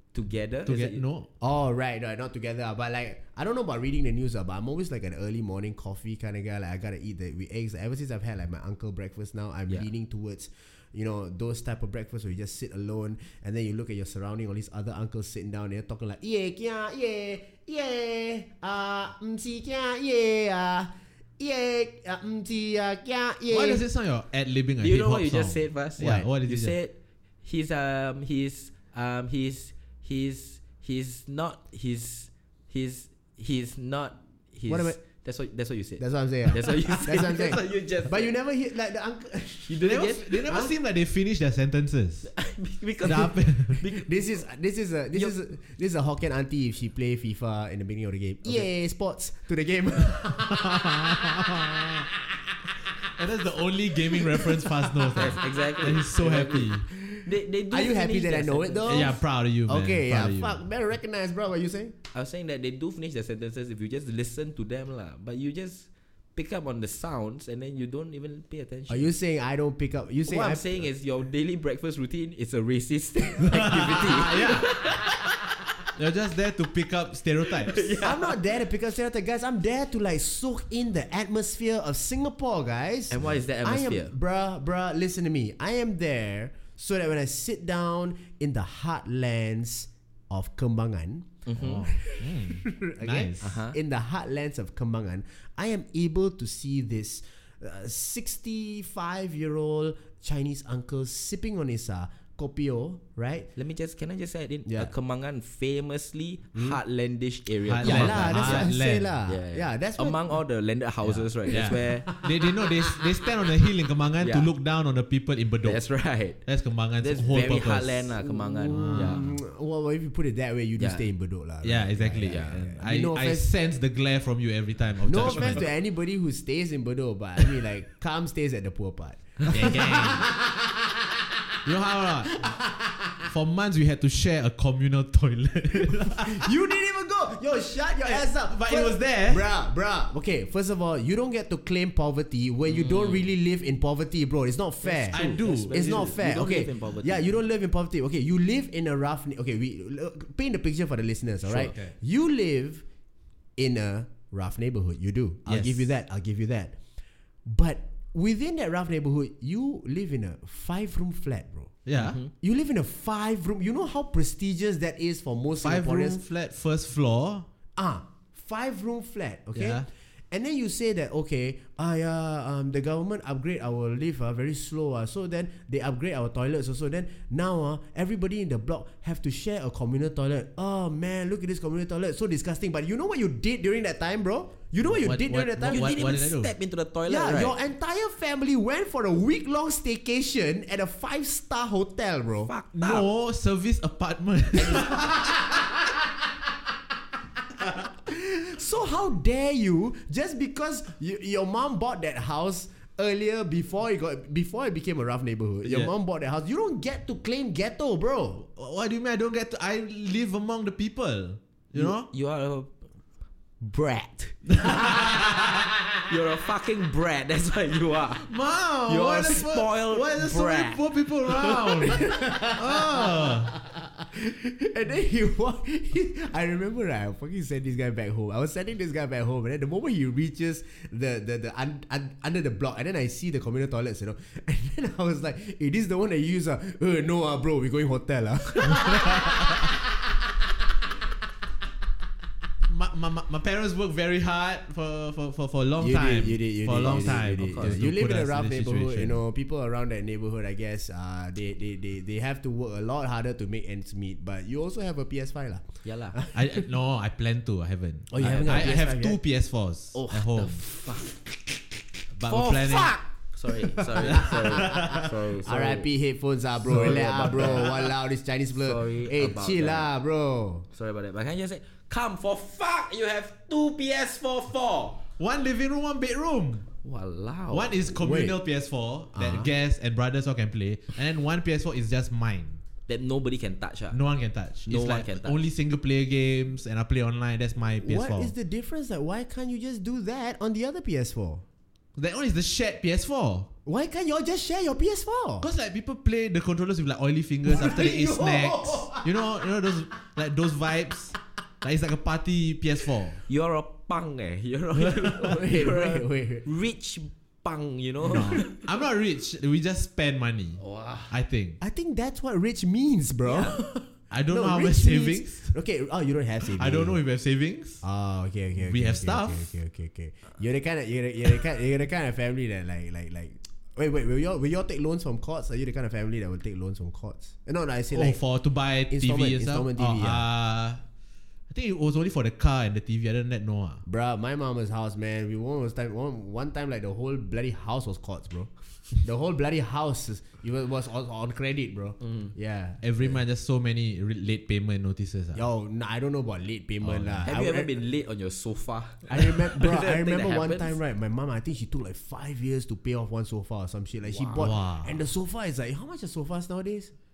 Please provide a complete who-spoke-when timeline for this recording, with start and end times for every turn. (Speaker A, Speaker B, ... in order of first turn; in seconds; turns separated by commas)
Speaker A: 0.1-1.0, Speaker B: 0.7-1.3, Speaker C: 1.4-23.8, Speaker B: 23.5-26.8, Speaker A: 24.8-38.3, Speaker C: 26.0-26.3, Speaker C: 34.7-35.0, Speaker C: 36.0-39.9, Speaker A: 39.7-40.7, Speaker B: 39.8-42.3, Speaker A: 42.3-44.0, Speaker B: 43.0-43.8, Speaker C: 43.9-53.1, Speaker B: 50.6-52.0, Speaker B: 53.2-56.9, Speaker C: 53.9-55.5, Speaker A: 55.2-59.2, Speaker C: 56.9-62.0, Speaker B: 58.9-60.6, Speaker A: 62.1-69.1, Speaker C: 68.9-70.7, Speaker A: 70.3-75.1, Speaker B: 73.5-75.2, Speaker B: 76.0-77.9, Speaker A: 77.6-78.3, Speaker C: 78.0-103.5, Speaker A: 83.1-84.1, Speaker A: 91.5-91.9, Speaker B: 91.6-93.6, Speaker A: 93.4-93.8, Speaker A: 103.6-108.7, Speaker C: 104.7-104.9, Speaker B: 107.6-109.1, Speaker C: 107.8-110.3, Speaker A: 109.3-112.1, Speaker C: 111.0-113.3, Speaker B: 111.5-115.8, Speaker A: 114.2-114.5, Speaker A: 115.6-116.4, Speaker B: 116.4-118.2, Speaker A: 117.0-119.2, Speaker C: 118.2-123.5, Speaker B: 118.7-119.3, Speaker A: 120.8-121.0, Speaker B: 121.6-125.6, Speaker A: 122.2-122.7, Speaker C: 125.0-131.6, Speaker A: 125.3-125.5, Speaker B: 129.5-130.3, Speaker B: 131.7-132.4, Speaker C: 132.2-133.3, Speaker B: 133.3-136.5, Speaker C: 136.2-152.8, Speaker B: 138.1-139.4, Speaker A: 142.8-143.2, Speaker A: 144.9-147.3, Speaker B: 145.1-146.1, Speaker B: 151.5-151.9, Speaker C: 153.6-156.8, Speaker B: 155.5-155.8, Speaker C: 157.4-161.8, Speaker B: 161.9-162.2, Speaker A: 162.0-162.3, Speaker C: 162.3-166.2, Speaker B: 165.6-167.5, Speaker C: 167.8-186.2, Speaker B: 169.6-169.9, Speaker B: 184.9-186.5, Speaker A: 185.7-187.5, Speaker C: 187.1-192.5, Speaker A: 192.5-193.1, Speaker B: 192.7-195.3, Speaker C: 194.5-196.5, Speaker C: 197.6-208.5, Speaker B: 205.6-205.9, Speaker B: 208.6-212.1, Speaker A: 211.8-212.9, Speaker A: 213.6-214.7, Speaker B: 214.5-215.4, Speaker C: 214.7-215.8, Speaker A: 216.1-218.3, Speaker B: 218.2-223.5, Speaker A: 218.9-222.1, Speaker C: 221.9-240.9, Speaker B: 242.7-249.2, Speaker C: 245.8-256.7, Speaker A: 246.8-247.8, Speaker A: 255.8-256.2, Speaker B: 256.3-260.6, Speaker C: 258.1-259.2, Speaker A: 258.2-258.8, Speaker A: 259.9-261.3, Speaker B: 262.2-263.0, Speaker A: 262.2-265.9, Speaker C: 263.9-270.7, Speaker B: 264.1-265.3, Speaker A: 266.6-267.7, Speaker B: 266.9-267.7, Speaker A: 268.6-269.9, Speaker A: 270.7-275.0, Speaker B: 275.2-276.7, Speaker A: 276.8-277.8, Speaker B: 277.5-282.6, Speaker C: 277.9-278.4, Speaker C: 279.1-279.5, Speaker A: 282.9-284.0, Speaker B: 283.9-288.3, Speaker A: 284.7-285.4, Speaker C: 287.8-291.4, Speaker B: 292.0-293.5, Speaker C: 293.7-295.5, Speaker B: 295.4-303.2, Speaker C: 297.4-299.3, Speaker A: 303.3-308.6, Speaker C: 304.8-306.5, Speaker B: 308.0-311.6, Speaker A: 310.6-311.1, Speaker C: 311.6-317.0, Speaker A: 313.3-313.7, Speaker B: 314.1-315.5, Speaker B: 316.4-317.8, Speaker C: 317.8-328.2, Speaker B: 318.6-319.5, Speaker B: 327.9-330.8, Speaker C: 328.9-330.3, Speaker B: 331.5-333.8, Speaker C: 333.9-343.2, Speaker A: 342.0-342.3, Speaker B: 342.8-345.4, Speaker C: 345.3-347.7, Speaker B: 346.8-347.3, Speaker A: 347.3-350.8, Speaker C: 349.1-356.9, Speaker A: 354.1-354.4, Speaker B: 354.4-355.0